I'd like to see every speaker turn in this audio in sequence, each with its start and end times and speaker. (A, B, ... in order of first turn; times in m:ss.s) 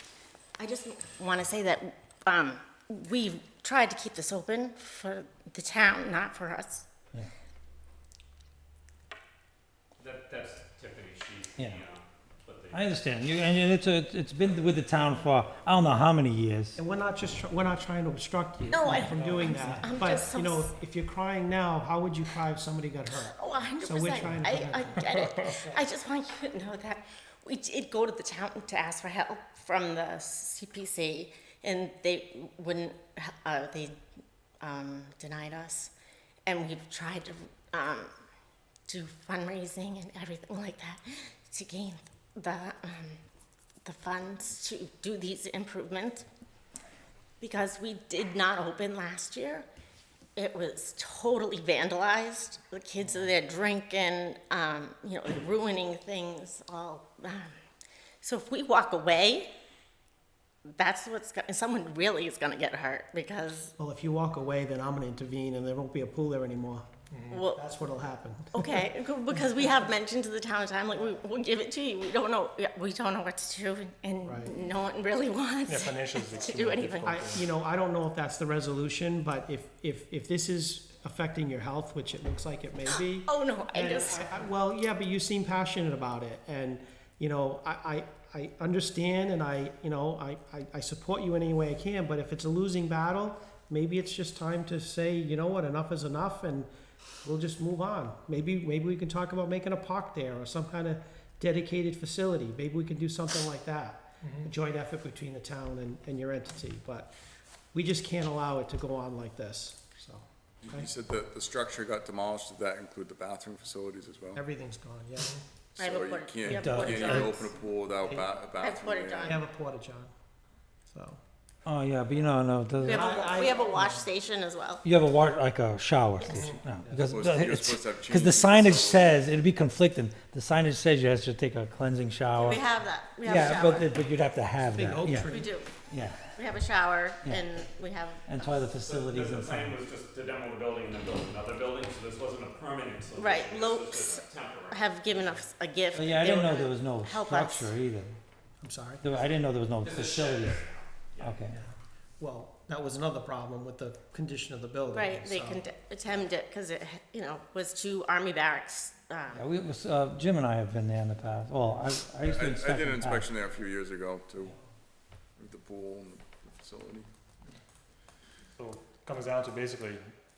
0:00.6-0:06.9 A
0:10.0-0:12.9 B
0:11.6-0:11.8 C
0:12.7-0:16.8 C
0:16.8-0:25.1 D
0:18.6-0:20.7 A
0:19.4-0:19.8 C
0:23.1-0:34.0 A
0:34.6-0:35.9 A
0:36.5-0:38.1 A
0:38.9-0:43.2 A
0:43.8-0:46.3 A
0:47.4-0:49.7 A
0:50.4-0:57.5 A
0:58.2-0:59.5 A
1:00.7-1:03.7 A
1:03.8-1:08.9 D
1:07.1-1:07.4 E
1:07.3-1:07.6 A
1:08.5-1:17.4 A
1:14.2-1:14.5 D
1:15.7-1:17.4 E
1:17.0-1:36.7 D
1:22.9-1:24.3 A
1:37.2-1:47.2 D
1:44.2-1:44.5 E
1:47.7-1:50.9 D
1:50.6-1:54.4 F
1:54.4-1:55.4 D
1:55.8-1:59.4 F
1:55.8-1:57.5 A
1:56.5-1:57.4 C
1:58.6-1:59.4 A
1:59.2-2:00.1 D
2:00.9-2:01.2 D
2:01.6-2:03.5 C
2:02.8-2:04.8 A
2:02.9-2:04.0 D
2:04.8-2:12.6 C
2:07.1-2:09.2 F
2:12.4-2:14.0 A
2:13.2-2:15.3 C
2:14.7-2:15.5 D
2:15.3-2:18.6 A
2:15.9-2:16.3 C
2:18.3-2:19.8 C
2:18.8-2:25.4 B
2:23.2-2:27.7 A
2:25.9-2:28.2 C
2:28.6-2:29.0 D
2:29.0-2:30.6 C
2:29.8-2:31.4 B
2:31.2-2:31.6 C
2:31.5-2:35.6 D
2:34.9-2:39.5 A
2:39.4-2:43.3 C
2:42.2-2:44.6 F
2:45.4-2:47.1 F
2:48.6-2:50.1 E